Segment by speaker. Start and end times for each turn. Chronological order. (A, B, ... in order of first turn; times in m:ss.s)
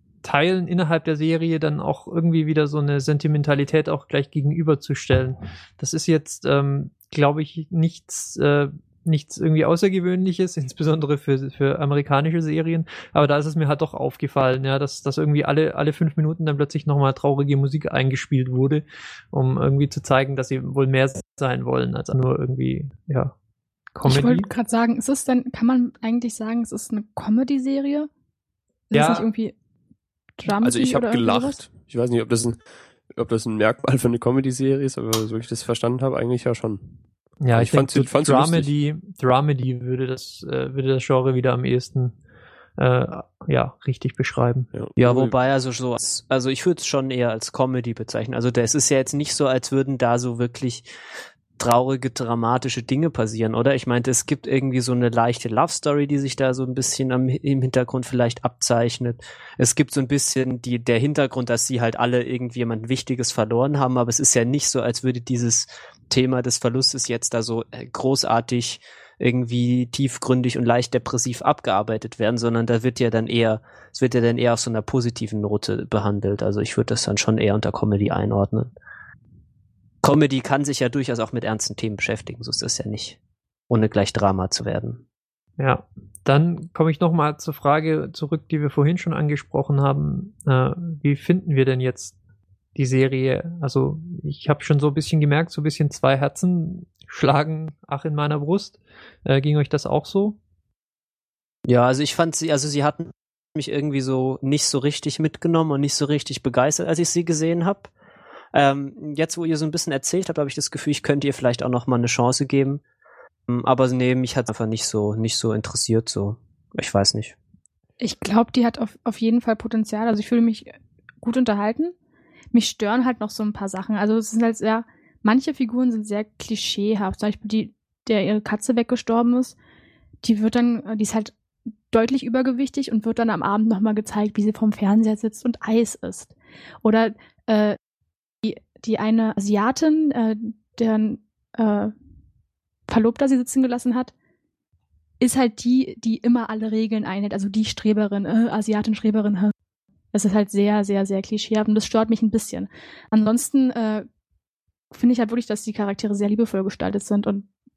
0:00.2-0:23.3 A
0:24.0-0:24.5 A
0:24.0-0:28.1 B
0:28.9-0:29.5 B
0:28.9-0:29.3 A
0:30.4-0:31.6 B
0:30.6-0:32.6 C
0:33.2-0:37.0 C
0:37.4-0:42.2 A
0:37.5-0:38.7 C
0:42.8-0:44.7 A
0:44.7-0:45.3 C
0:45.0-0:50.9 D
0:51.6-1:18.7 D
1:20.0-1:23.2 D
1:23.7-1:25.0 D
1:25.6-1:32.2 A
1:32.8-1:40.4 A
1:41.7-1:47.9 D
1:48.5-1:52.8 D
1:53.5-1:57.4 D
1:58.0-2:00.7 B
2:01.2-2:01.9 B
2:02.5-2:09.6 B
2:10.2-2:11.3 B
2:11.9-2:17.8 B
2:18.4-2:21.9 B
2:22.9-2:24.1 B
2:25.2-2:29.5 B
2:30.1-2:34.0 B
2:34.9-2:37.4 B